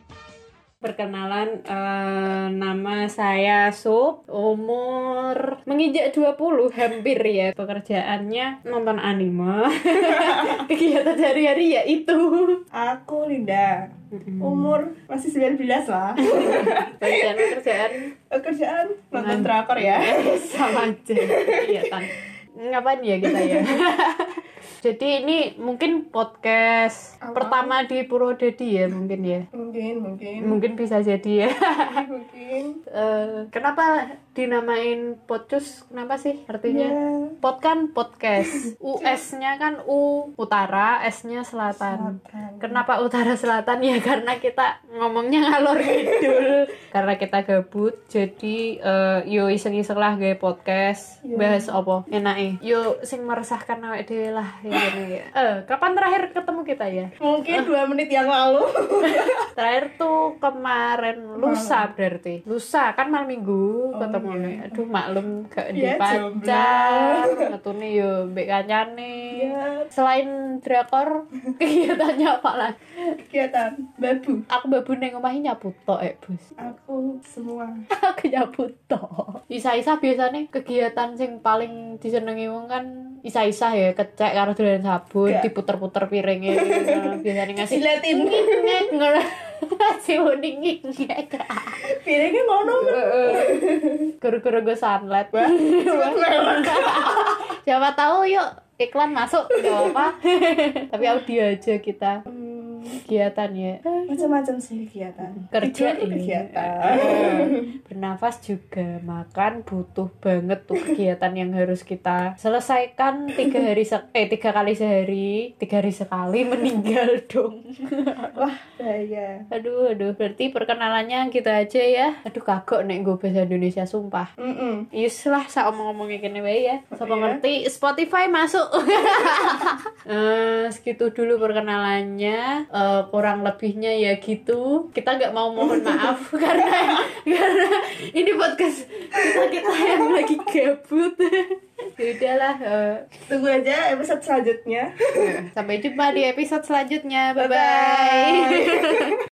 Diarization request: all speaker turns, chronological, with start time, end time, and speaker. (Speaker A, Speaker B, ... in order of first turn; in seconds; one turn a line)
Speaker A: 0.8-12.6
Speaker B: 10.0-10.6
Speaker B: 12.7-17.6
Speaker A: 14.1-14.7
Speaker A: 16.2-18.1
Speaker B: 18.2-20.6
Speaker A: 19.1-29.4
Speaker B: 21.2-21.9
Speaker B: 23.2-23.7
Speaker B: 27.2-27.7
Speaker B: 29.5-30.6
Speaker A: 30.4-32.0
Speaker B: 31.9-32.8
Speaker A: 32.9-57.7
Speaker B: 36.6-37.3
Speaker B: 38.4-39.2
Speaker B: 41.8-42.8
Speaker B: 51.2-51.7
Speaker B: 57.2-59.4
Speaker A: 59.5-72.8
Speaker B: 61.4-61.9
Speaker B: 63.9-64.8
Speaker B: 65.7-67.5
Speaker B: 69.3-69.9
Speaker B: 73.3-74.4
Speaker A: 74.5-76.5
Speaker B: 76.6-77.8
Speaker A: 77.9-91.8
Speaker B: 85.2-85.5
Speaker B: 86.5-88.9
Speaker B: 91.8-94.1
Speaker A: 92.8-93.5
Speaker A: 94.2-102.2
Speaker B: 95.3-97.3
Speaker B: 99.6-100.0
Speaker B: 102.3-103.0
Speaker A: 103.0-104.2
Speaker B: 104.1-107.7
Speaker A: 105.4-118.4
Speaker B: 118.3-119.4
Speaker A: 119.5-124.3
Speaker B: 124.4-124.9
Speaker A: 124.9-143.1
Speaker B: 126.9-127.4
Speaker B: 135.6-137.0
Speaker B: 143.3-145.4
Speaker A: 145.2-149.2
Speaker B: 147.4-149.2